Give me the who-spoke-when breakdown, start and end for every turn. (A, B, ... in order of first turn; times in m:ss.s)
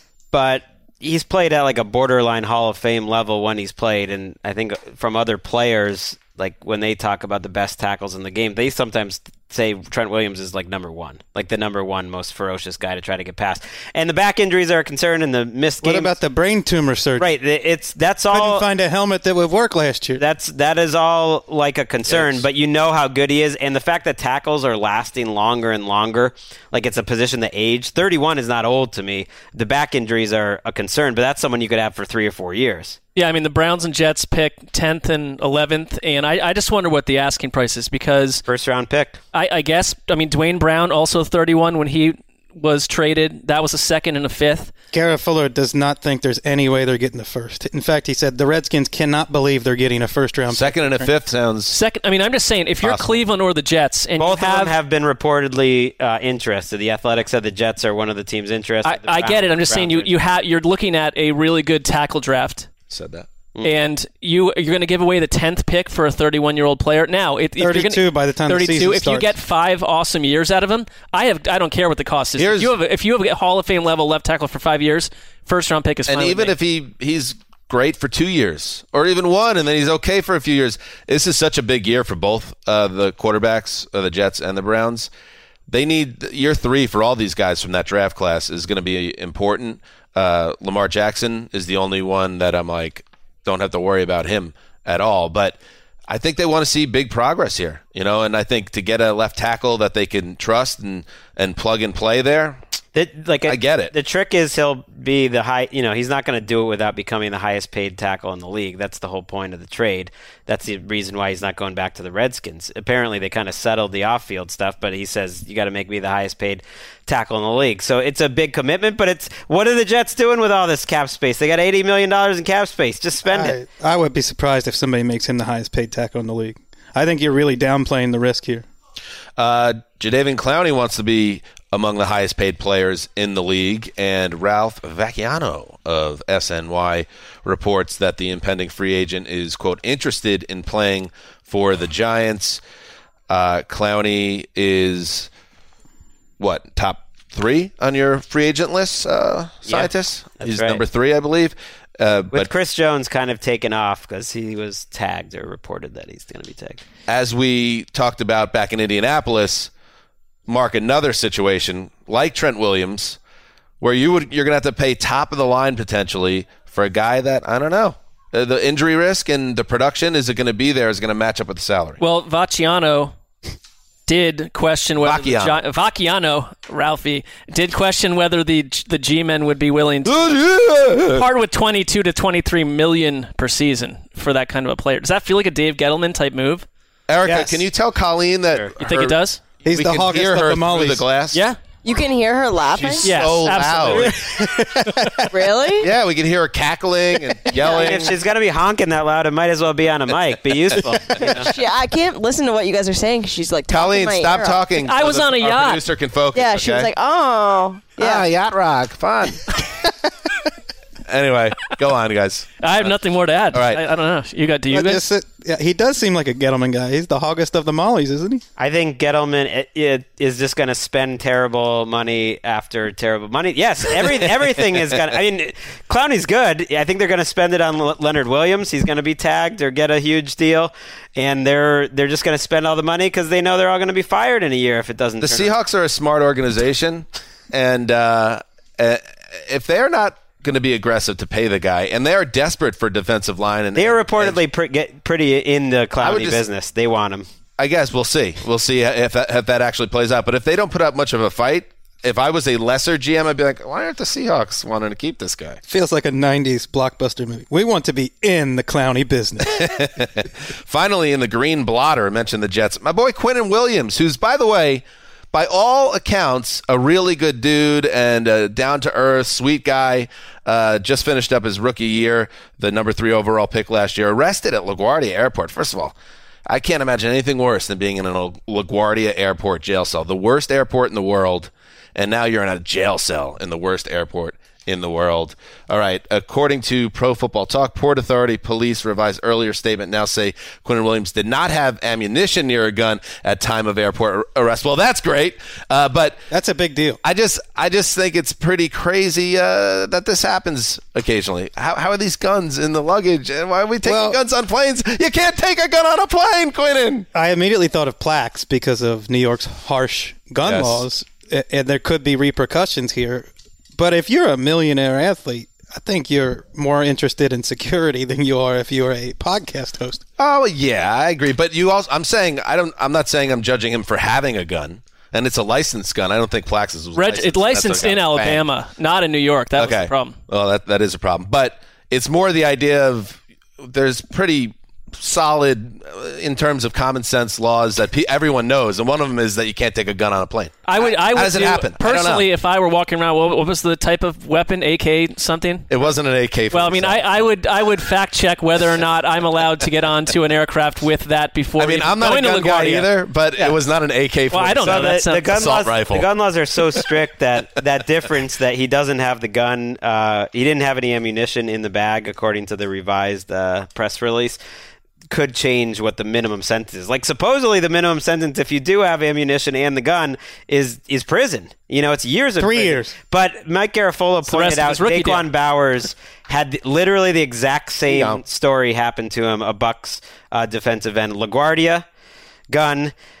0:00.3-0:16.2 A
0:15.8-0:17.3 B
0:17.2-0:18.6 A
0:18.3-0:20.2 B
0:20.2-0:33.0 A
0:22.1-0:22.4 C
0:33.1-0:38.4 D
0:38.5-0:39.2 A
0:39.3-0:44.7 D
0:44.9-0:51.1 B
0:50.5-0:51.8 C
0:51.7-0:54.7 D
0:52.8-0:53.2 C
0:54.2-1:00.1 A
0:58.8-1:02.7 D
1:02.9-1:03.3 C
1:03.6-1:16.6 D
1:07.6-1:09.3 B
1:12.4-1:12.7 C
1:16.1-1:25.1 C
1:25.7-1:42.6 C
1:42.9-2:03.6 A
1:43.4-1:43.9 C
2:03.3-2:08.6 B
2:09.4-2:22.6 C
2:23.3-2:25.3 C
2:26.4-2:32.5 C
2:29.6-2:30.8 A
2:32.3-2:36.8 A
2:37.1-2:39.7 C
2:40.5-2:43.2 C
2:43.8-2:52.0 C
2:52.0-2:53.1 D
2:54.1-3:00.4 D
2:55.0-2:55.6 C
3:00.0-3:01.2 C
3:01.1-3:06.6 D
3:07.1-3:11.4 C
3:07.2-3:07.6 B
3:08.8-3:09.4 D
3:09.6-3:11.0 B
3:11.3-3:11.6 D
3:11.8-3:13.1 E
3:12.7-3:14.2 C
3:13.0-3:14.3 D
3:14.2-3:15.4 B
3:15.3-3:15.9 E
3:15.8-3:18.2 C
3:17.5-3:17.9 E
3:17.7-3:21.5 A
3:21.2-3:21.5 C
3:21.2-3:24.7 E
3:23.7-3:26.9 C
3:24.8-3:25.8 D
3:26.3-3:28.2 E
3:28.0-3:29.4 C
3:31.1-3:32.9 C
3:32.6-3:35.0 D
3:33.5-3:33.8 C
3:34.7-3:38.4 B
3:38.6-3:55.5 A
3:55.2-4:04.4 C
4:03.8-4:07.2 A
4:06.0-4:06.4 C
4:07.6-4:15.6 C
4:15.6-4:19.8 B
4:19.5-4:35.9 C
4:36.5-4:56.2 C
4:56.3-4:57.0 B
4:57.0-5:07.1 C
5:03.8-5:04.2 B
5:07.1-5:20.0 B
5:10.4-5:10.8 C
5:20.2-5:28.4 C
5:27.0-5:30.2 D
5:29.6-5:42.3 C
5:40.7-5:45.7 D
5:45.7-5:47.1 C
5:46.5-5:52.9 D
5:51.6-5:56.1 C
5:54.3-5:55.5 D
5:54.6-6:04.4 A
6:05.1-6:21.8 A
6:12.4-6:12.9 B
6:14.3-6:15.2 D
6:17.9-6:18.2 C
6:22.5-6:22.9 A